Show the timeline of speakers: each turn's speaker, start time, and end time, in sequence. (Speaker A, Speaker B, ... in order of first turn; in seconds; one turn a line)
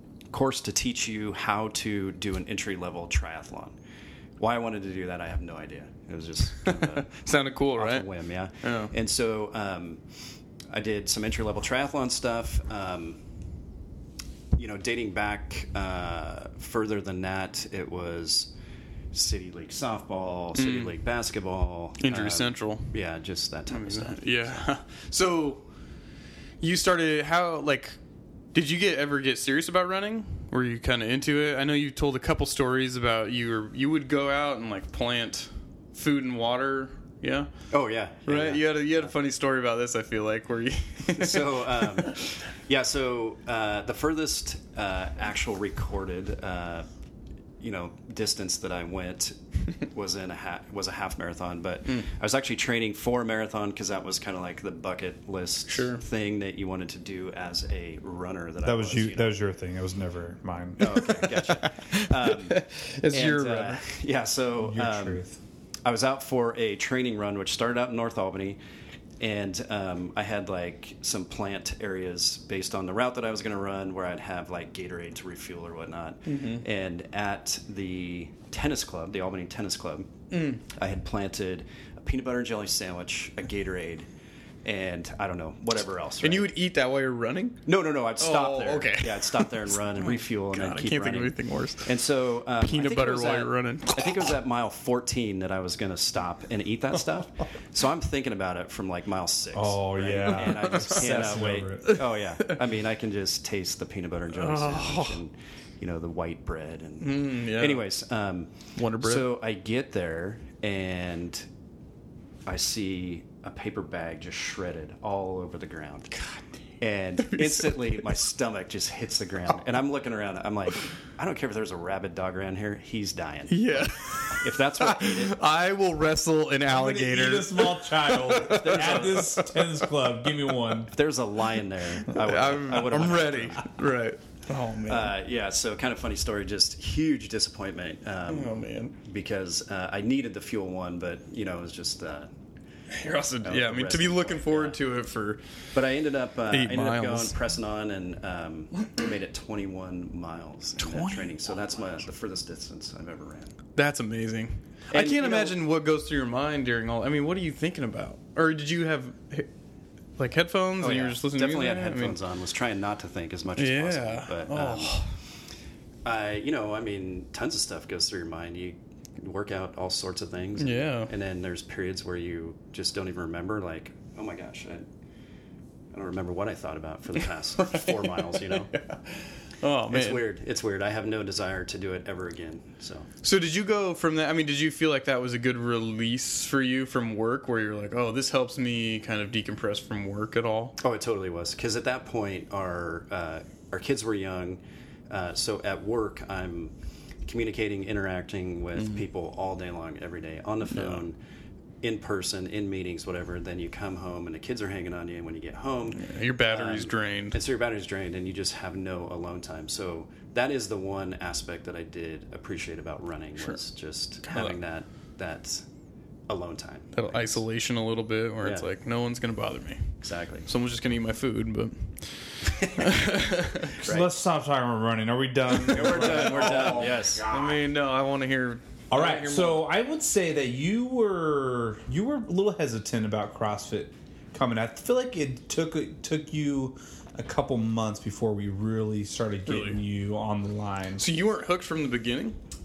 Speaker A: 0.3-3.8
Speaker A: 4.4-7.2
Speaker B: 6.6-8.1
Speaker A: 7.8-10.0
Speaker B: 8.6-8.9
Speaker A: 10.7-13.2
Speaker A: 14.6-18.5
Speaker A: 19.1-24.6
Speaker B: 20.5-21.0
Speaker B: 22.0-23.0
Speaker B: 23.7-25.7
Speaker B: 26.6-28.0
Speaker B: 28.5-37.7
Speaker A: 37.7-39.1
Speaker B: 38.3-42.3
Speaker A: 41.1-46.9
Speaker A: 47.6-59.4
Speaker B: 55.7-56.0
Speaker C: 58.6-61.0
Speaker A: 60.8-65.3
Speaker B: 61.0-63.8
Speaker C: 64.6-65.4
Speaker A: 65.8-68.6
Speaker A: 69.2-80.1
Speaker B: 76.3-76.6
Speaker B: 80.3-80.6
Speaker A: 80.6-84.1
Speaker A: 84.7-86.5
Speaker B: 86.2-87.7
Speaker A: 87.7-111.5
Speaker B: 88.2-94.3
Speaker C: 99.5-101.9
Speaker B: 100.3-101.2
Speaker B: 101.8-102.6
Speaker B: 104.3-105.2
Speaker B: 107.0-107.8
Speaker B: 108.8-109.3
Speaker A: 112.5-116.2
Speaker B: 116.2-116.5
Speaker A: 116.8-125.4
Speaker B: 117.2-118.2
Speaker B: 123.5-129.9
Speaker C: 126.7-130.9
Speaker A: 128.6-129.3
Speaker A: 130.9-133.7
Speaker B: 132.1-135.2
Speaker A: 134.9-142.3
Speaker B: 138.3-138.9
Speaker B: 142.9-145.4
Speaker A: 143.4-144.8
Speaker A: 145.7-153.5
Speaker B: 146.5-147.5
Speaker B: 150.8-151.9
Speaker B: 153.8-159.5
Speaker A: 154.9-155.6
Speaker B: 160.2-162.2
Speaker A: 160.8-165.1
Speaker B: 163.6-165.2
Speaker A: 166.1-174.9
Speaker B: 170.6-171.1
Speaker A: 175.9-178.7
Speaker B: 177.6-180.3
Speaker A: 179.9-183.1
Speaker B: 183.2-190.8
Speaker A: 190.8-196.7
Speaker A: 197.2-201.2
Speaker B: 200.7-201.0
Speaker A: 201.8-215.7
Speaker B: 205.9-207.4
Speaker B: 214.2-214.6
Speaker A: 216.3-217.4
Speaker B: 216.9-223.8
Speaker A: 220.0-220.5
Speaker A: 223.8-224.1
Speaker C: 223.8-227.6
Speaker B: 225.6-229.6
Speaker A: 225.7-227.3
Speaker C: 228.9-241.1
Speaker B: 239.5-239.8
Speaker B: 241.0-242.4